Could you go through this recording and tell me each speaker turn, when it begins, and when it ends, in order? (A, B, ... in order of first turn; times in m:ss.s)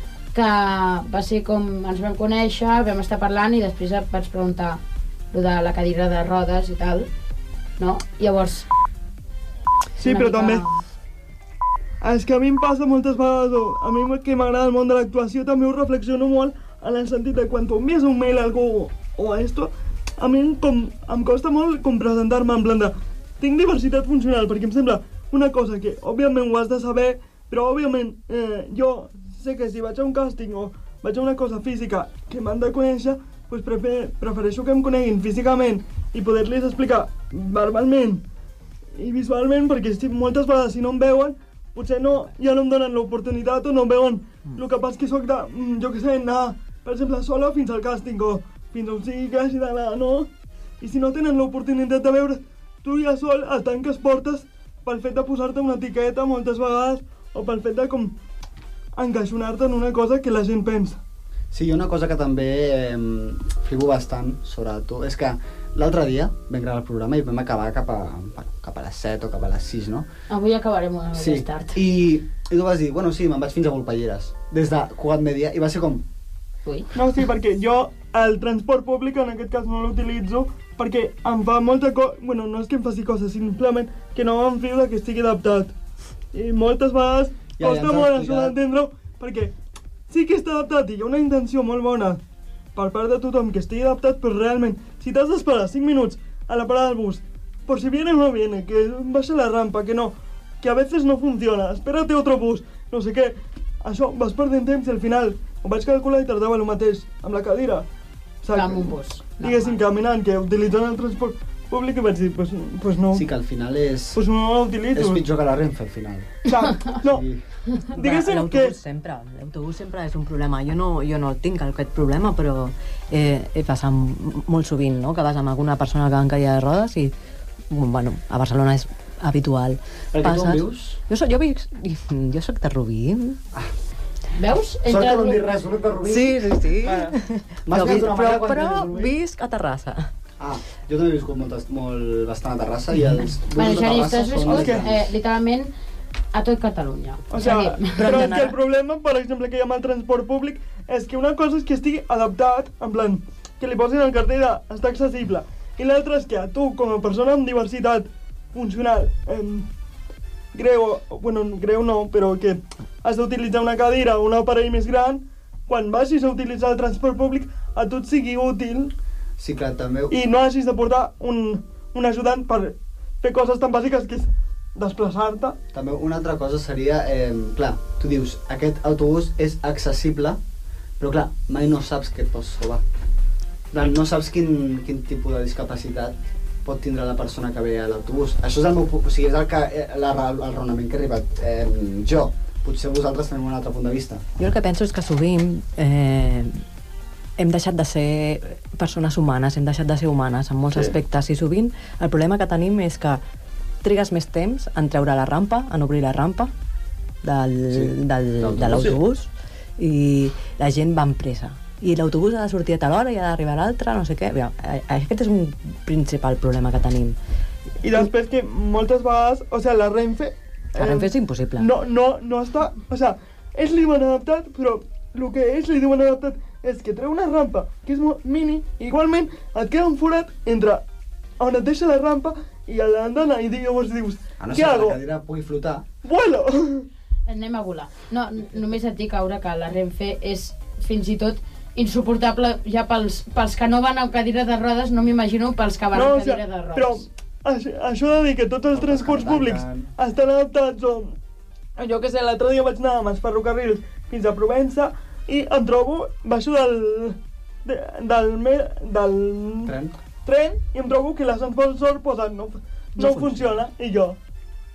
0:00.3-0:04.8 A
0:05.3-0:07.1 A
0:07.8-0:08.7 A
0:10.0-0:10.6 B
0:10.0-0:10.8 A
0:12.0-0:38.2 B
0:39.0-0:50.3 B
0:50.8-0:58.1 B
0:59.0-1:01.0 B
1:01.5-1:10.1 C
1:10.3-1:11.8 A
1:11.1-1:16.0 C
1:16.6-1:16.9 A
1:16.9-1:25.7 B
1:26.3-1:29.5 B
1:27.6-1:28.6 C
1:30.1-1:32.2 B
1:32.7-1:47.8 B
1:48.4-1:53.2 B
1:48.5-1:49.8 A
1:53.1-1:54.2 C
1:54.1-1:55.2 B
1:54.9-1:57.4 C
1:56.5-1:57.2 B
1:57.9-2:07.1 D
1:58.0-1:58.8 B
2:07.7-2:13.4 D
2:10.1-2:11.0 C
2:14.4-2:15.4 A
2:14.8-2:17.0 C
2:16.0-2:20.1 D
2:16.8-2:17.1 B
2:17.6-2:19.1 C
2:20.4-2:25.1 C
2:23.0-2:23.3 D
2:23.5-2:25.7 A
2:24.4-2:24.8 B
2:26.3-2:28.2 A
2:27.3-2:39.7 B
2:27.9-2:28.6 D
2:40.5-2:48.9 B
2:49.4-2:50.2 C
2:50.1-2:55.6 B
2:55.7-3:00.4 C
3:01.0-3:02.8 C
3:03.7-3:14.2 C
3:14.4-3:16.6 D
3:17.4-3:23.2 D
3:23.8-3:26.5 D
3:27.2-3:37.2 D
3:27.7-3:29.0 C
3:37.8-3:50.8 B
3:40.7-3:41.7 D
3:51.4-3:55.0 B
3:54.4-3:55.8 C
3:56.0-3:56.9 B
3:57.3-4:07.0 A
4:05.9-4:11.2 B
4:08.7-4:09.9 C
4:11.8-4:19.7 B
4:19.6-4:19.9 C
4:20.2-4:24.2 B
4:23.0-4:23.5 D